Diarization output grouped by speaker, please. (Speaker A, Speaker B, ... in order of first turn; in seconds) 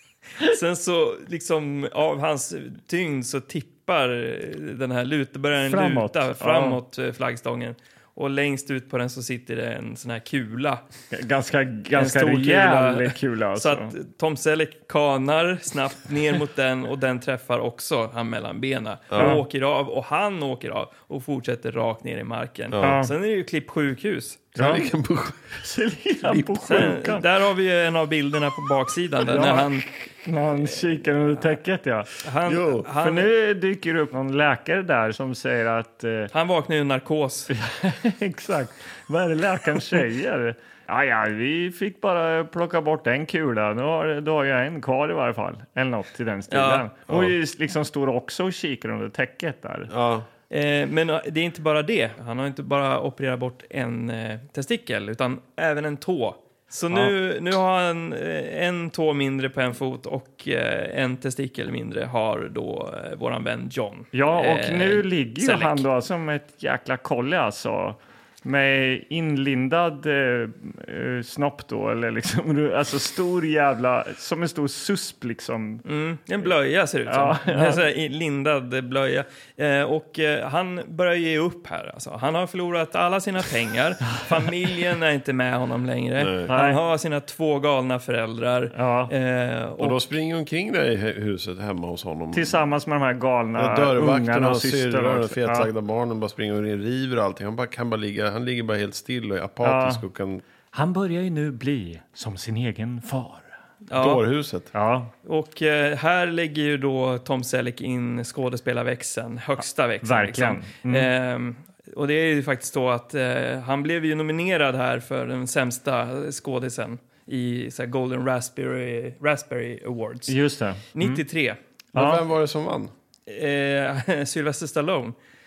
Speaker A: 0.4-10.9, 11.9-24.5, 26.7-29.9, 32.2-33.3, 36.3-37.5, 46.5-46.9, 50.5-65.9, 75.8-90.0, 103.9-104.2, 105.2-120.4, 120.9-121.6, 123.3-125.2
Speaker B: 5.6-6.8, 11.1-13.9, 22.8-23.1, 24.6-24.9, 25.6-27.3, 29.3-32.1, 33.0-36.3, 37.5-49.9, 64.1-75.8, 77.1-77.8, 86.5-86.8, 88.7-89.1, 92.3-95.7, 99.6-100.0, 100.7-103.5, 104.7-105.1, 110.0-111.1, 120.3-121.2, 122.0-122.2
Speaker C: 19.1-19.4, 22.7-23.0, 24.6-25.6, 26.2-26.9, 32.5-32.9, 47.1-47.4, 49.9-50.3, 86.2-86.5, 89.8-92.6, 93.6-100.4, 103.9-104.7, 121.9-122.9